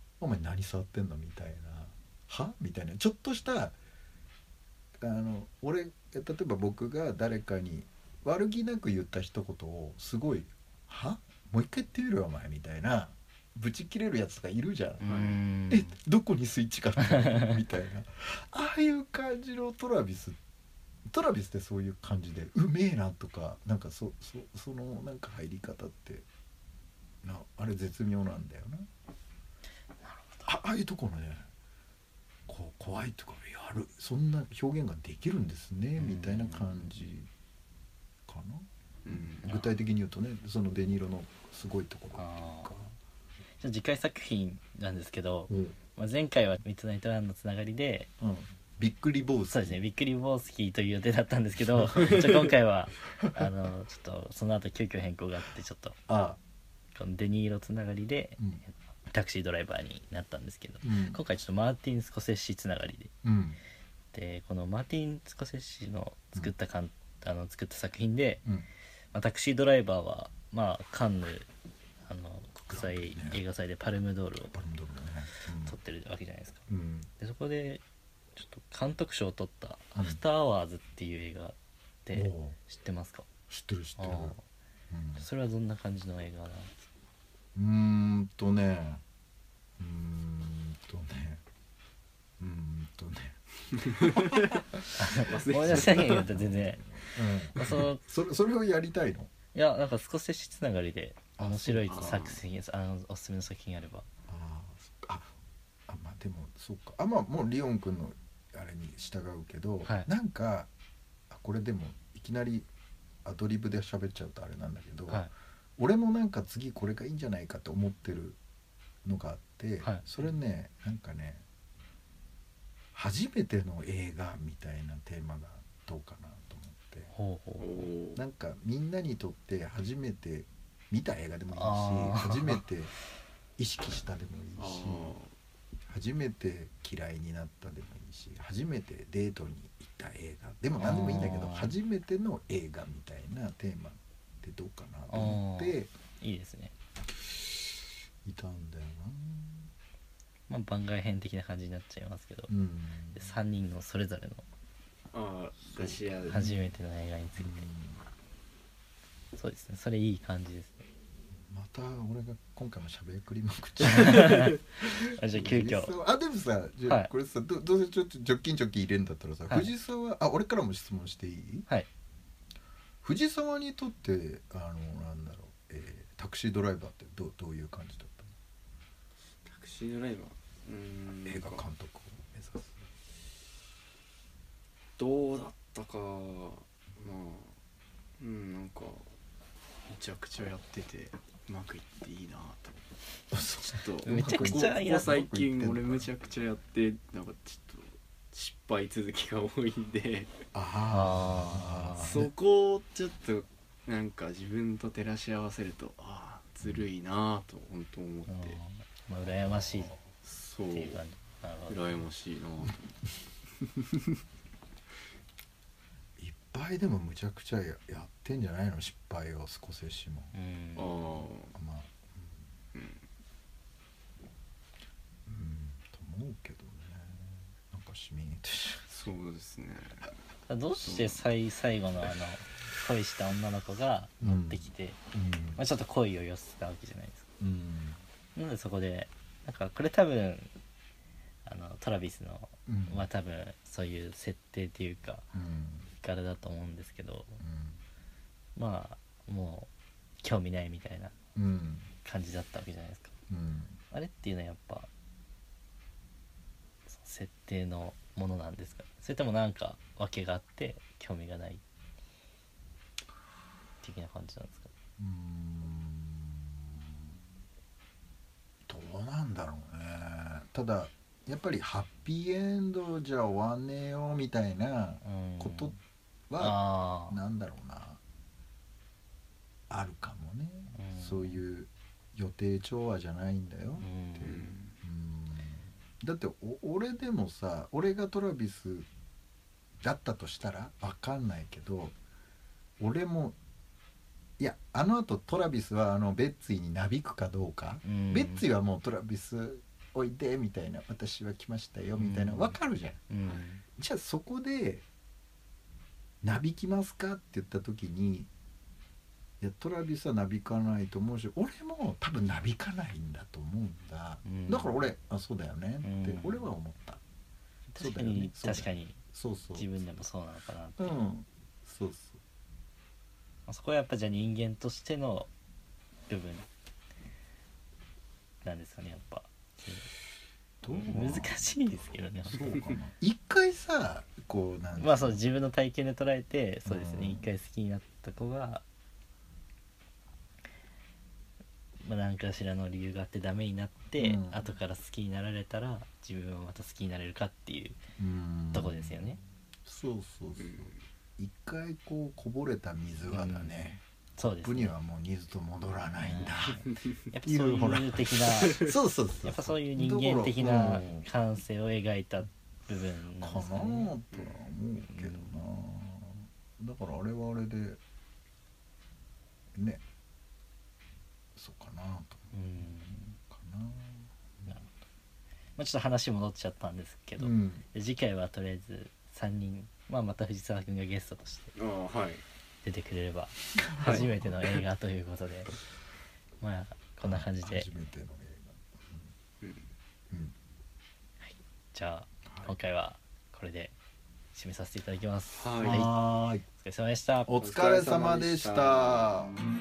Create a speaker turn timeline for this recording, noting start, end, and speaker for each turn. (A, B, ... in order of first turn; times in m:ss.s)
0:00.2-0:03.8 A
0:05.0-0:20.4 A
0:15.0-0:15.9 B
0:15.0-0:15.4 C
0:17.1-0:17.5 B
0:21.1-0:26.2 A
0:27.2-0:28.9 A
0:30.0-0:30.5 B
0:30.4-0:31.5 A
0:32.5-0:37.3 A
0:36.0-0:36.9 B
0:38.3-0:42.9 A
0:39.0-0:39.5 C
0:39.4-0:39.7 B
0:42.1-0:42.7 B
0:43.6-0:48.1 B
0:45.5-0:45.8 A
0:48.2-0:49.8 A
0:49.5-0:56.0 B
0:56.1-0:56.4 A
0:56.9-1:03.1 B
1:00.8-1:01.2 A
1:03.2-1:03.6 A
1:04.1-1:08.4 B
1:09.1-1:11.5 B
1:12.0-1:14.5 B
1:12.7-1:13.4 A
1:14.5-1:15.8 A
1:15.6-1:16.7 B
1:16.7-1:17.1 A
1:17.2-1:17.8 B
1:18.4-1:23.3 B
1:22.1-1:22.6 A
1:23.5-1:24.4 A
1:24.0-1:24.4 B
1:24.9-1:25.2 A
1:25.2-1:26.7 B
1:27.5-1:29.0 A
1:29.8-1:31.4 A
1:32.4-1:34.8 A
1:33.8-1:34.6 C
1:35.0-1:36.9 B
1:35.2-1:36.3 C
1:35.6-1:39.3 A
1:37.5-1:38.0 B
1:39.5-1:44.1 B
1:41.4-1:42.2 A
1:41.9-1:42.4 C
1:44.3-1:45.3 A
1:45.9-1:50.7 A
1:51.3-1:52.7 A
1:53.2-1:58.4 A
1:59.0-2:01.4 A
2:02.9-2:07.1 A
2:07.1-2:07.7 B
2:07.6-2:08.2 C
2:08.1-2:12.9 A
2:11.5-2:12.6 B
2:13.6-2:15.1 A
2:14.6-2:15.3 C
2:15.9-2:25.9 A
2:20.8-2:21.8 B
2:25.1-2:26.7 B
2:27.1-2:29.7 A
2:30.5-2:32.5 B
2:32.5-2:33.3 A
2:33.1-2:34.5 B
2:35.1-2:36.5 C
2:35.7-2:36.5 A
2:36.3-2:37.6 B
2:37.4-2:38.0 A
2:39.4-2:40.8 B
2:41.4-2:51.7 A
2:43.9-2:45.9 B
2:44.0-2:44.6 C
2:53.0-2:58.3 A
2:59.4-3:01.6 C
3:01.2-3:02.8 A
3:05.0-3:07.6 C
3:08.2-3:09.1 C
3:09.9-3:12.8 C
3:13.3-3:16.1 A
3:13.6-3:20.3 C
3:14.0-3:15.1 B
3:20.5-3:22.3 A
3:20.9-3:22.2 B
3:22.0-3:28.6 C
3:28.3-3:30.0 B
3:29.3-3:30.0 A
3:30.2-3:31.0 C
3:30.7-3:32.0 B
3:31.7-3:32.9 C
3:36.2-3:40.3 A
3:40.3-3:41.0 B
3:40.8-3:41.5 C
3:41.5-3:42.5 A
3:42.7-3:43.0 C
3:45.2-3:48.8 A
3:48.9-3:50.1 C
3:50.5-3:55.0 B
3:50.8-3:51.2 C
3:54.2-3:55.6 A
3:55.6-3:57.3 B
3:57.4-3:58.0 A
3:58.3-4:00.5 B
4:01.4-4:05.3 B
4:02.6-4:03.1 A
4:05.3-4:05.9 A
4:06.0-4:07.4 B
4:07.4-4:07.8 A
4:08.6-4:09.7 B
4:10.2-4:11.1 B
4:11.3-4:11.9 A
4:12.0-4:13.2 B
4:13.3-4:13.8 A
4:13.9-4:14.9 B
4:16.9-4:21.6 B
4:23.8-4:24.7 B
4:25.0-4:27.1 A
4:28.6-4:35.8 A
4:35.0-4:35.8 B
4:36.3-4:38.0 A
4:36.4-4:37.2 B
4:39.7-4:48.9 A
4:40.7-4:41.4 B
4:43.8-4:44.5 B
4:44.2-4:44.8 C
4:49.8-4:52.0 A
4:52.8-4:53.4 A
4:54.4-5:03.1 A
4:57.8-4:58.4 B
5:02.0-5:02.6 B
5:03.1-5:03.6 B
5:03.8-5:04.8 A
5:06.2-5:08.3 A
5:09.4-5:17.0 A
5:14.2-5:14.9 B
5:15.8-5:16.5 B
5:17.7-5:19.0 B
5:17.8-5:19.7 A
5:19.6-5:21.0 B
5:20.8-5:22.2 A
5:23.5-5:25.3 B
5:26.1-5:26.5 B
5:28.4-5:29.9 B
5:30.6-5:35.2 A
5:30.7-5:32.8 B
5:34.8-5:38.6 B
5:36.6-5:37.3 A
5:41.8-5:47.8 B
5:44.0-5:44.4 A
5:48.0-5:53.8 A
5:48.5-5:49.2 B
5:50.4-5:50.8 C
5:53.1-5:53.5 B
5:54.2-5:54.8 B
5:54.4-6:01.1 A
5:56.0-5:56.4 B
5:56.6-5:56.9 C
5:57.1-5:58.7 B
5:58.3-5:58.7 C
5:59.2-6:03.9 B
6:03.2-6:07.8 A
6:04.1-6:04.4 C
6:04.9-6:05.3 B
6:09.5-6:09.8 A
6:11.3-6:12.3 A
6:12.3-6:13.2 B
6:13.3-6:14.7 A
6:15.6-6:21.5 B
6:17.2-6:17.6 A
6:21.5-6:22.2 C
6:22.6-6:25.5 B
6:23.6-6:24.1 A
6:23.8-6:24.0 C
6:26.4-6:27.7 B
6:27.0-6:29.1 A
6:30.1-6:30.3 A
6:31.2-6:33.7 B
6:32.3-6:32.5 A
6:34.3-6:37.3 B
6:35.4-6:35.8 C
6:35.6-6:36.4 A
6:37.3-6:39.3 A
6:37.3-6:39.1 C